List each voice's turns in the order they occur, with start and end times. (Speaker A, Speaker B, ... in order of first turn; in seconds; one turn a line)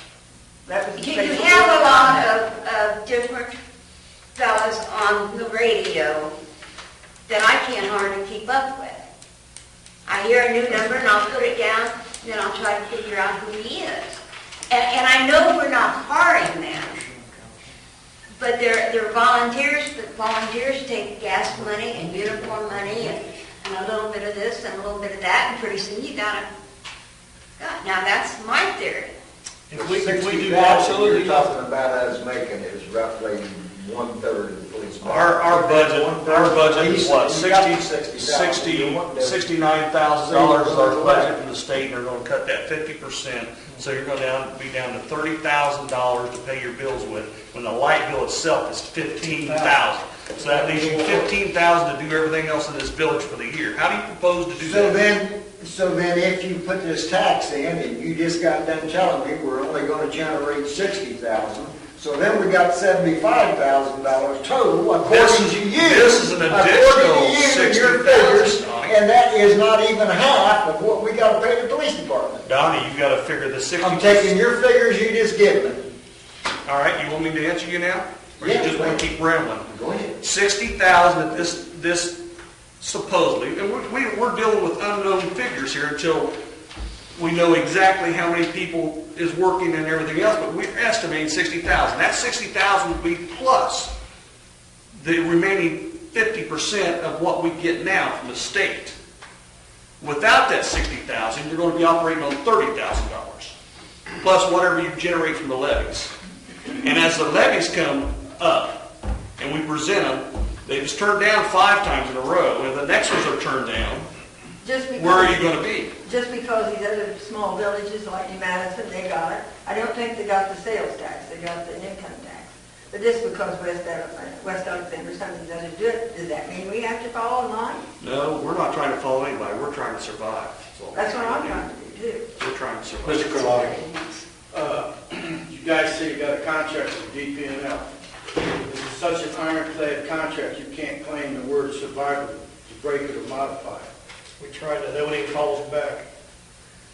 Speaker A: 0.7-2.2
Speaker B: 1.0-3.5
Speaker B: 4.3-6.3
Speaker B: 7.3-9.0
Speaker B: 10.1-17.0
Speaker B: 18.3-26.5
Speaker B: 27.6-29.1
Speaker C: 29.7-31.5
Speaker D: 29.7-39.5
Speaker E: 35.0-55.0
Speaker D: 40.2-41.3
Speaker C: 49.2-49.8
Speaker C: 50.4-51.3
Speaker D: 54.6-72.4
Speaker E: 65.0-69.0
Speaker E: 72.4-74.3
Speaker D: 73.8-75.9
Speaker E: 76.7-79.7
Speaker D: 78.4-79.0
Speaker D: 79.7-80.2
Speaker E: 80.2-82.2
Speaker E: 82.8-86.3
Speaker E: 87.1-93.9
Speaker E: 95.0-99.0
Speaker E: 100.0-103.5
Speaker E: 104.2-106.1
Speaker E: 106.7-108.8
Speaker E: 109.4-114.1
Speaker A: 114.6-115.4
Speaker E: 114.9-115.9
Speaker A: 116.0-127.8
Speaker E: 128.0-131.7
Speaker A: 130.9-132.2
Speaker E: 132.4-133.5
Speaker C: 133.0-133.7
Speaker B: 133.3-134.2
Speaker F: 134.5-137.9
Speaker F: 138.4-143.9
Speaker C: 144.4-146.1